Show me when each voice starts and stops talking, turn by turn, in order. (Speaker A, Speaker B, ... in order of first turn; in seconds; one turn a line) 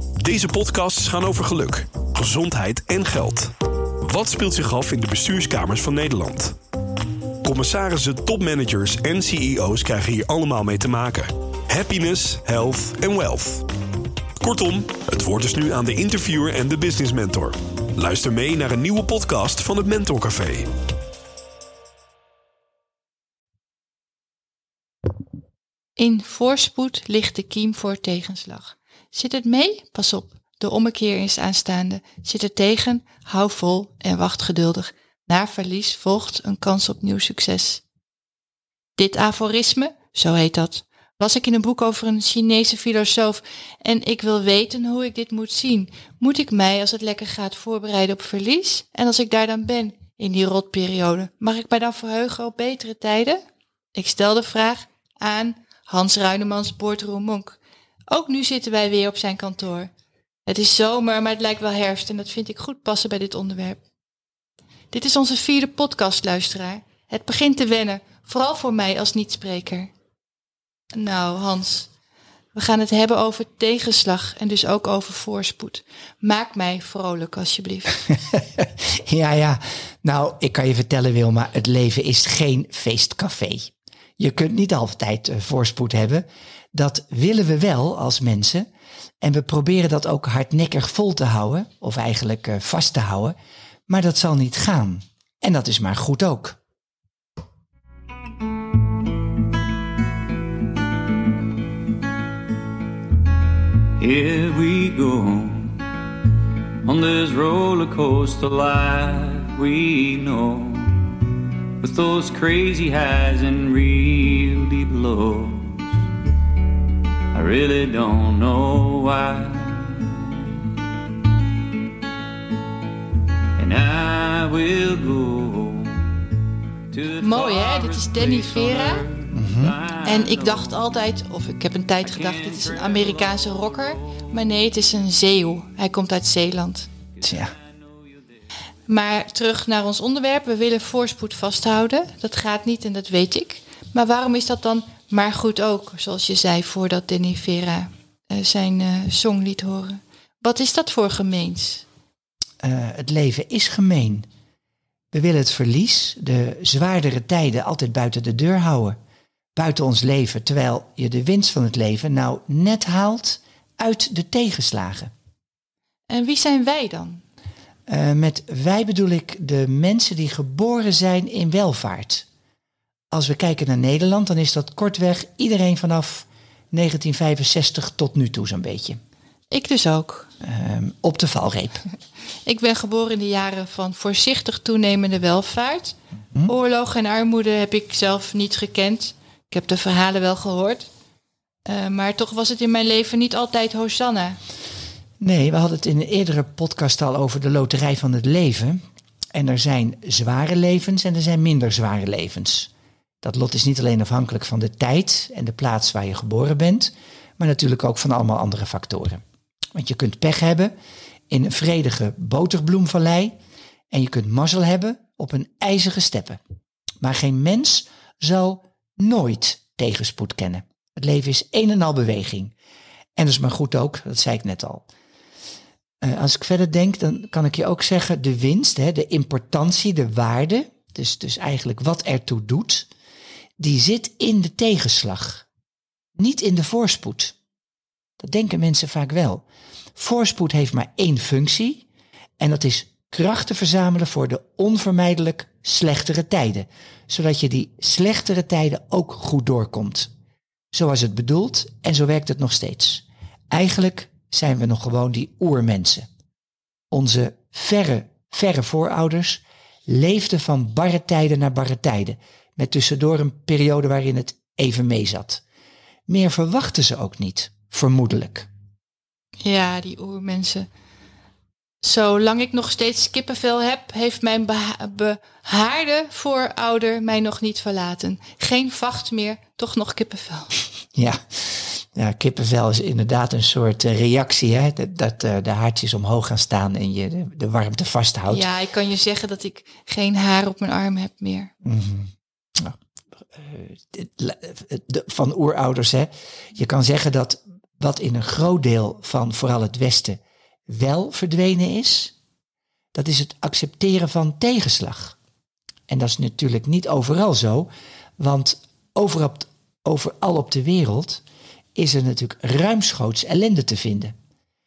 Speaker A: 0.2-3.5
Speaker A: 4.0-6.5
Speaker A: 7.4-13.6
Speaker A: 14.4-20.7
Speaker B: 26.0-37.8
Speaker B: 39.0-53.4
Speaker B: 53.9-57.6
Speaker B: 58.1-59.9
Speaker B: 60.5-63.8
Speaker B: 64.9-69.9
Speaker B: 70.9-71.9
Speaker B: 72.5-78.0
Speaker C: 78.1-88.7
Speaker C: 89.2-93.3
Speaker C: 93.9-96.6
Speaker D: 104.0-105.8
Speaker D: 106.8-111.2
Speaker D: 111.8-116.0
Speaker D: 117.3-120.5
Speaker D: 123.6-126.0
Speaker D: 126.9-130.8
Speaker B: 127.2-129.0
Speaker C: 129.3-129.7
Speaker B: 130.0-136.9
Speaker D: 132.0-134.2
Speaker D: 137.2-138.1
Speaker C: 137.2-137.5
Speaker B: 138.9-151.8
Speaker C: 152.6-154.3
Speaker C: 155.1-159.0
Speaker C: 159.6-165.1
Speaker B: 166.1-167.2
Speaker C: 167.9-172.2
Speaker C: 173.1-179.0
Speaker B: 179.5-180.3
Speaker C: 180.4-181.8
Speaker B: 182.4-190.9
Speaker B: 191.7-194.4
Speaker C: 195.2-198.8
Speaker C: 199.3-202.7
Speaker C: 203.2-209.2
Speaker C: 209.7-210.7
Speaker C: 211.3-213.3
Speaker C: 213.9-216.4
Speaker C: 217.0-222.5
Speaker C: 223.2-224.9
Speaker C: 226.0-232.9
Speaker C: 233.6-235.4
Speaker C: 236.2-237.3
Speaker C: 238.2-239.4
Speaker C: 240.0-241.8
Speaker C: 242.4-250.1
Speaker C: 250.7-256.1
Speaker C: 256.9-265.4
Speaker C: 266.1-268.5
Speaker B: 269.4-270.7
Speaker B: 271.8-280.6
Speaker C: 280.9-288.5
Speaker B: 288.3-291.5
Speaker C: 291.6-292.8
Speaker C: 293.3-302.1
Speaker C: 302.9-305.1
Speaker C: 305.9-311.2
Speaker C: 311.8-314.1